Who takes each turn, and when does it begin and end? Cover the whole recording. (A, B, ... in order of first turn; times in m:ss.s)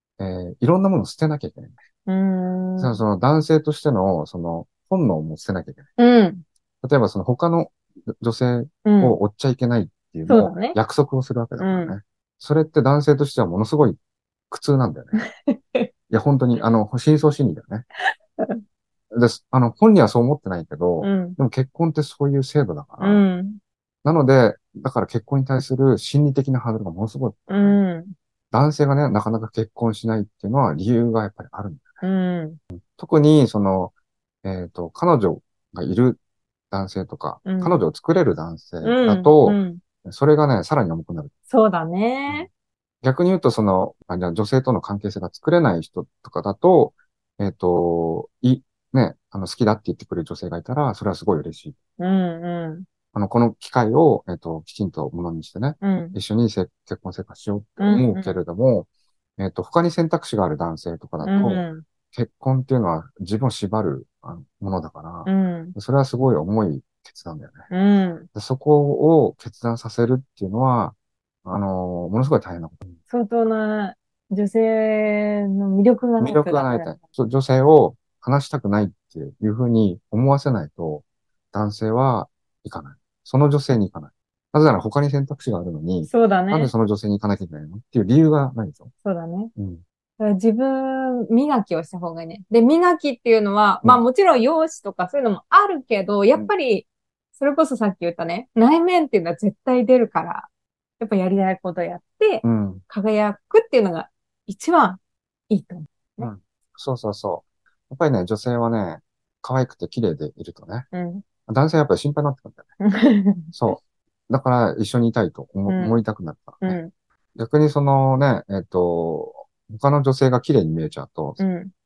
0:00.2-0:01.8 A
0:02.1-0:03.0 B
0:02.8-0:05.9 A
0:06.0-0:06.4 B
0:06.8-0:14.0 A
0:08.8-0:09.2 B
0:10.3-0:10.8 B
0:11.6-0:12.0 B
0:14.5-0:15.2 A
0:15.2-0:15.9 B
0:16.1-0:17.8 A
0:18.4-0:18.6 B
0:19.1-0:23.2 A
0:21.0-0:21.4 B
0:23.0-0:23.6 B
0:24.0-0:27.8 A
0:27.5-0:28.1 B
0:28.5-0:32.0 A
0:32.0-0:32.6 B
0:32.7-0:33.9 A
0:34.4-0:36.2 A
0:36.7-0:41.3 A
0:37.4-0:37.8 B
0:38.8-0:39.8 B
0:41.5-0:42.5 B
0:43.0-0:51.8 A
0:52.0-0:52.9 B
0:53.1-1:07.7 A
0:55.8-0:56.2 B
0:57.8-0:58.4 B
1:01.2-1:01.8 B
1:05.2-1:05.8 B
1:07.7-1:08.3 B
1:08.3-1:13.0 A
1:13.1-1:17.0 B
1:16.2-1:28.9 A
1:26.1-1:26.7 B
1:29.0-1:29.5 B
1:29.6-1:29.8 A
1:30.2-1:40.5 B
1:41.0-1:46.3 B
1:42.4-1:42.8 A
1:46.2-1:50.9 A
1:50.9-1:51.2 B
1:51.5-1:52.7 A
1:52.8-1:53.8 B
1:53.5-1:56.8 A
1:55.7-1:56.0 B
1:56.6-1:56.9 B
1:57.4-2:01.4 A
2:01.4-2:01.7 B